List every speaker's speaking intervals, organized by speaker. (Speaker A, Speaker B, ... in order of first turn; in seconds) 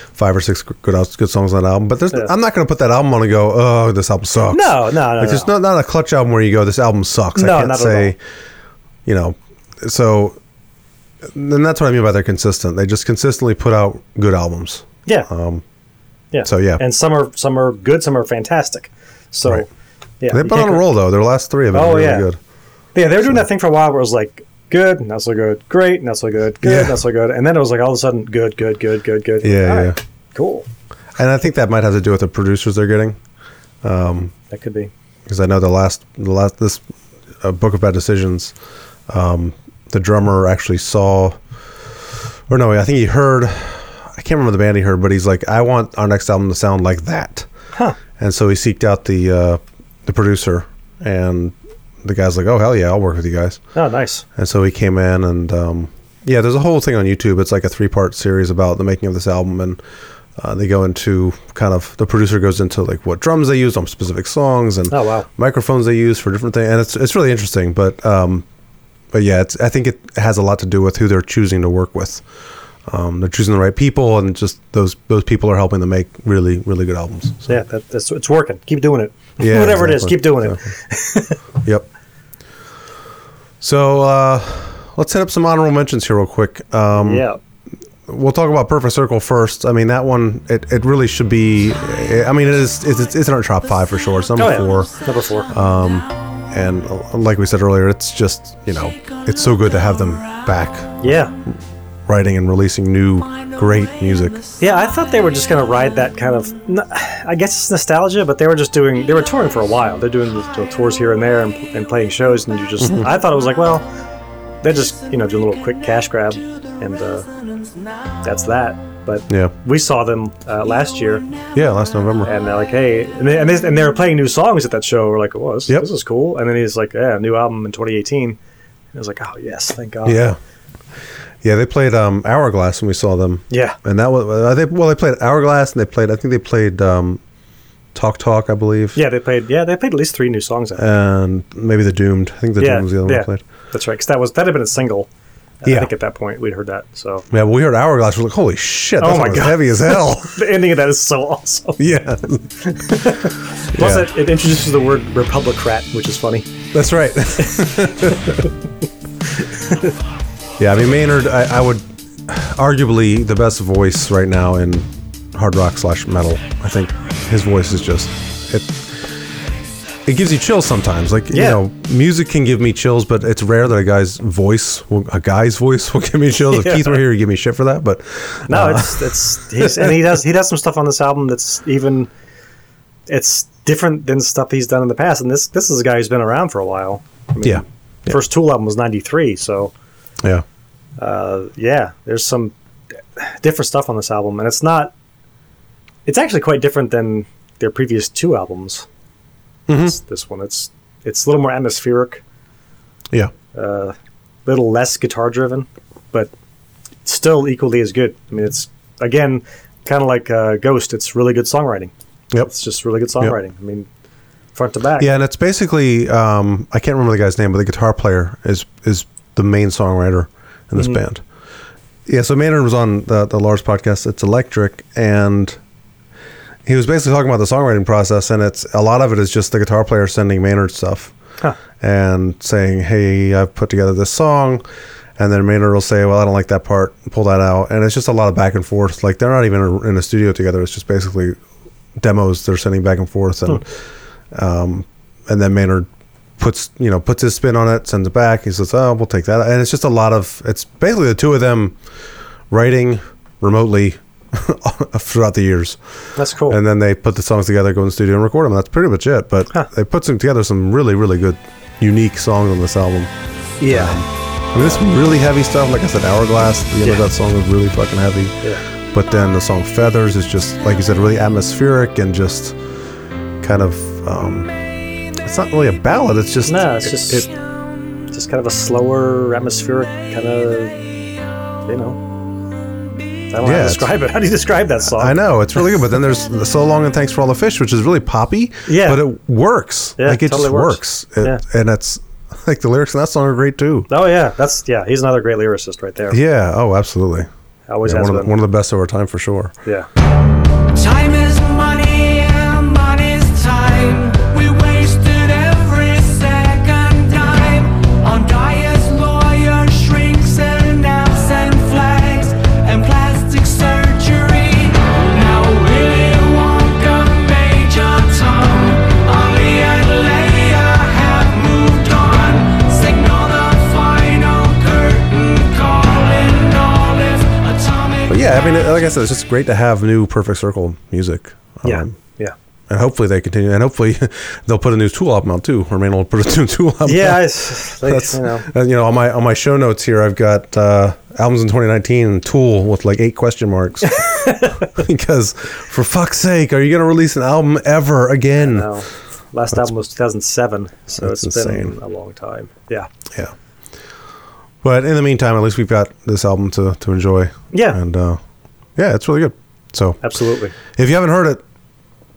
Speaker A: 0.1-8.2, 9.1-10.4, 11.2-15.6, 16.4-16.8, 20.3-22.4, 26.6-27.0, 29.4-30.0, 31.1-33.2, 33.8-34.3, 35.3-36.8, 37.4-38.5, 39.1-41.4, 42.5-47.5, 48.2-53.6, 54.3-59.8, 60.4-68.4, 69.1-72.2, 72.9-77.5, 79.4-80.6, 83.6-87.3, 88.1-94.9, 95.5-101.1, 102.1-104.4, 112.8-113.1, 121.5-122.3, 130.1-130.4, 131.4-137.2, 137.9-139.0, 140.8-143.4, 145.6-145.9, 147.3-150.4, 151.8-152.4, 153.7-154.1, 156.7-158.4, 160.6-168.9, 170.1-180.0, 187.4-188.2, 199.7-199.9, 215.0-221.2, 222.1-225.6, 226.7-231.1, 231.8-234.6, 235.2-241.4, 242.0-243.6, 244.3-251.7, 252.5-255.8, 256.5-263.1, 263.6-268.4, 268.9-272.6, 273.4-274.5, 275.2-277.3, 283.4-283.9, 284.9-293.9, 296.1-297.3, 297.8-299.6, 328.1-331.9, 332.7-348.7, 351.0-351.7, 354.6-358.2, 358.8-360.0, 360.6-361.4
Speaker B: 4.5-5.5, 7.3-8.1, 16.3-19.7, 20.2-20.9, 21.7-22.3, 22.9-30.7, 34.5-34.9, 53.7-54.2, 64.9-65.3, 77.5-81.4, 86.9-87.4, 94.4-95.5, 101.0-101.3, 104.6-113.9, 114.6-117.3, 118.2-121.3, 122.2-128.4, 128.9-130.3, 133.5-133.8, 138.9-140.9, 142.6-145.1, 145.6-147.3, 149.0-151.8, 152.6-156.5, 159.6-159.9, 171.3-171.6, 176.5-177.0, 178.5-182.1, 183.1-189.7, 191.0-192.5, 193.2-194.9, 196.1-198.9, 199.8-202.2, 203.5-206.3, 207.1-211.9, 212.4-213.9, 214.6-215.1, 256.1-256.6, 263.6-264.0, 276.5-277.3, 278.1-280.8, 281.6-282.0, 283.3-285.2, 288.7-289.0, 290.0-291.4, 293.9-296.2, 297.7-298.3, 331.6-332.3, 336.8-338.5, 343.9-344.6, 348.4-352.9, 357.5-357.8, 360.0-360.6
Speaker C: 300.7-328.3